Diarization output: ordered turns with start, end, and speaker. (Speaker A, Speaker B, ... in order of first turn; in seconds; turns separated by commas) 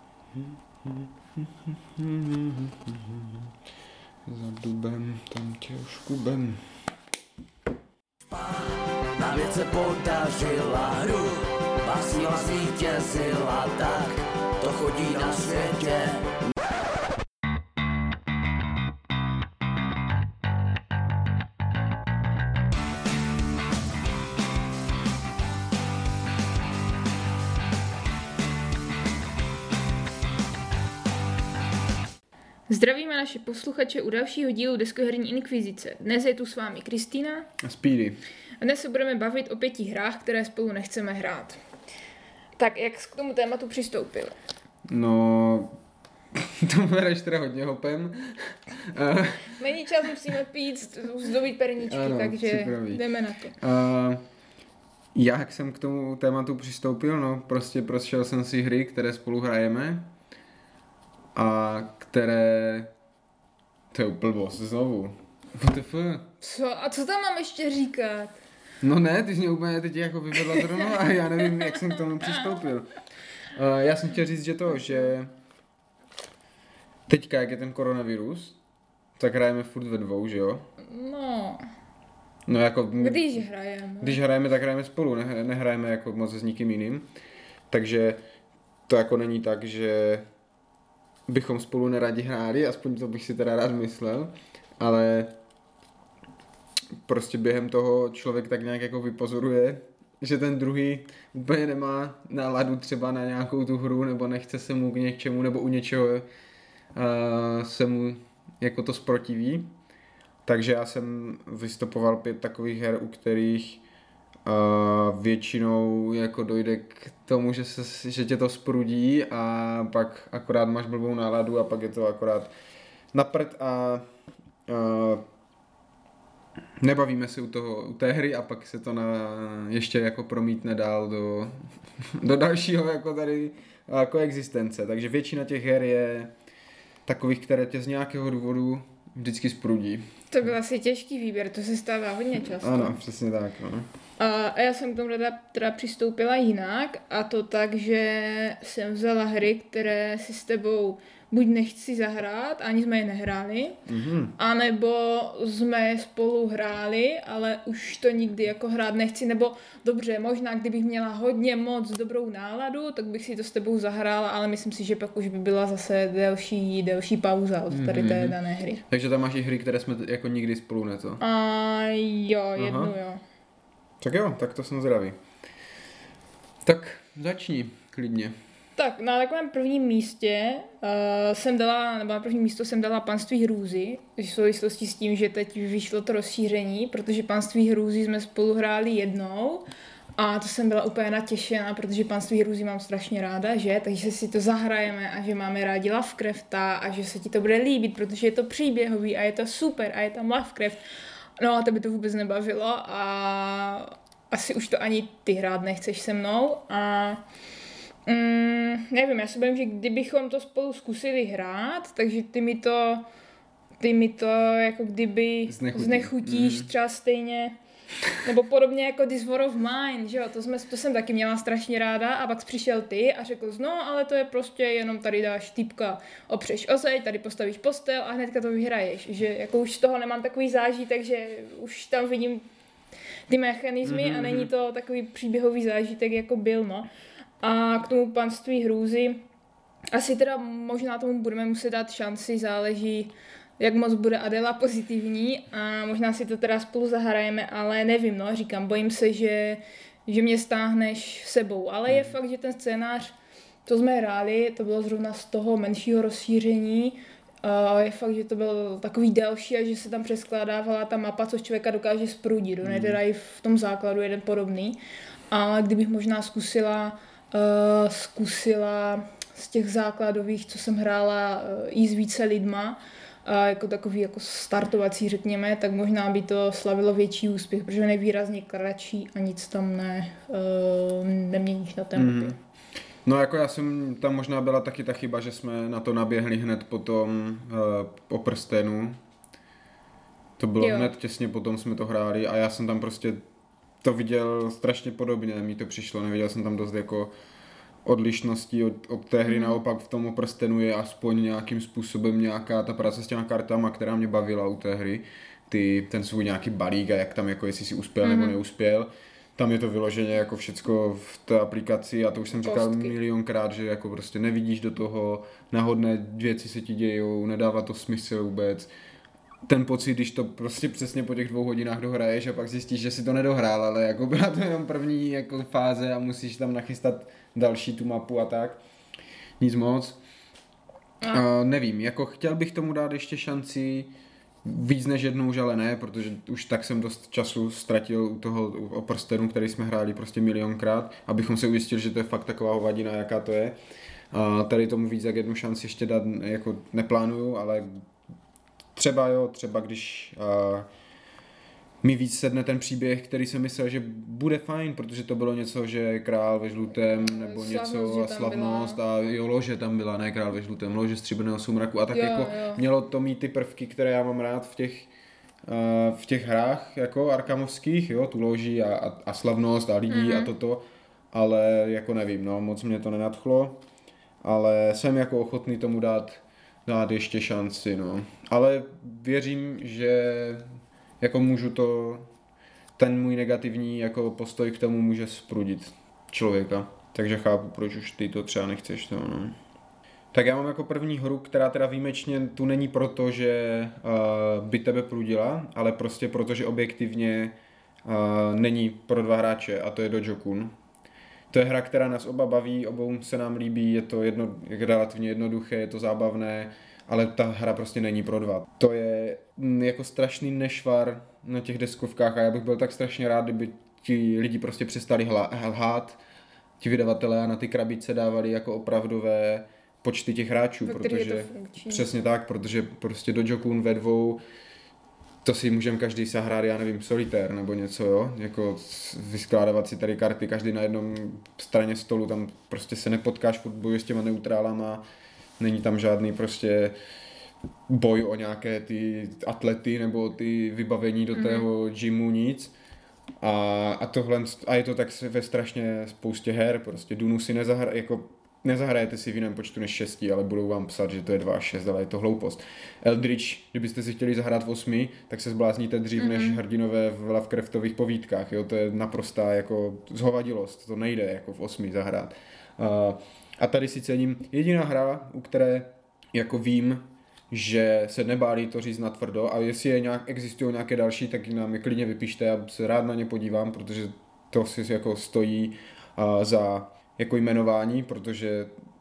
Speaker A: 0.3-3.5, Speaker A: 4.2-6.7, Speaker B: 8.3-16.3, Speaker C: 32.7-37.5, Speaker A: 37.6-38.2, Speaker C: 38.6-41.6, Speaker C: 42.6-44.3, Speaker A: 44.9-45.7, Speaker A: 46.3-49.6, Speaker C: 49.6-53.5, Speaker A: 51.9-53.0, Speaker A: 53.5-54.2, Speaker A: 55.1-60.0, Speaker A: 61.3-62.9, Speaker A: 63.9-66.3, Speaker C: 66.4-68.4, Speaker A: 68.8-72.9, Speaker C: 70.5-72.6, Speaker A: 73.5-75.3, Speaker A: 77.1-78.5, Speaker A: 79.2-80.7, Speaker C: 80.8-81.6, Speaker A: 82.5-83.4, Speaker C: 83.0-84.2, Speaker A: 84.0-87.1, Speaker A: 87.7-88.2, Speaker A: 88.9-90.2, Speaker A: 91.3-95.3, Speaker A: 97.0-106.2, Speaker A: 106.9-109.7, Speaker A: 110.4-113.8, Speaker A: 114.5-122.5, Speaker A: 123.1-124.0, Speaker A: 124.7-125.2, Speaker A: 126.8-131.5, Speaker A: 132.2-136.3, Speaker A: 137.1-140.1, Speaker C: 140.3-143.0, Speaker A: 142.5-143.9, Speaker C: 144.2-153.8, Speaker A: 153.9-154.4, Speaker C: 154.4-168.8, Speaker A: 167.7-168.4, Speaker A: 168.9-171.2, Speaker C: 171.2-173.2, Speaker A: 172.6-172.9, Speaker A: 174.0-175.2, Speaker A: 176.6-178.3, Speaker C: 178.8-200.8, Speaker C: 201.4-207.2, Speaker C: 208.1-213.1, Speaker C: 213.8-217.6, Speaker A: 215.5-216.7, Speaker C: 218.2-232.4, Speaker C: 233.3-236.9, Speaker A: 233.8-234.5, Speaker C: 237.4-239.2, Speaker C: 239.9-253.1, Speaker C: 253.7-264.8, Speaker A: 262.6-263.0, Speaker C: 265.3-282.4, Speaker A: 281.9-282.4, Speaker A: 283.0-289.0, Speaker A: 290.4-293.2, Speaker C: 290.6-290.9, Speaker A: 293.8-297.1, Speaker A: 297.8-318.7, Speaker C: 299.2-299.6, Speaker C: 308.0-308.4, Speaker C: 312.4-312.9, Speaker A: 319.4-328.6, Speaker A: 329.4-330.0, Speaker A: 331.1-333.9, Speaker A: 334.4-343.6, Speaker A: 344.1-347.7, Speaker A: 348.7-350.7, Speaker A: 351.8-364.9, Speaker C: 357.0-358.8, Speaker C: 361.9-362.6, Speaker A: 365.5-373.6, Speaker C: 369.9-370.3, Speaker A: 374.2-380.4, Speaker A: 381.0-382.1, Speaker A: 382.8-389.4, Speaker A: 390.1-400.5, Speaker A: 401.3-416.0, Speaker A: 416.6-424.2, Speaker C: 420.6-421.9, Speaker A: 425.2-434.8, Speaker A: 435.4-436.7, Speaker A: 437.7-442.5, Speaker C: 441.1-441.5, Speaker A: 443.2-478.5, Speaker C: 456.0-456.4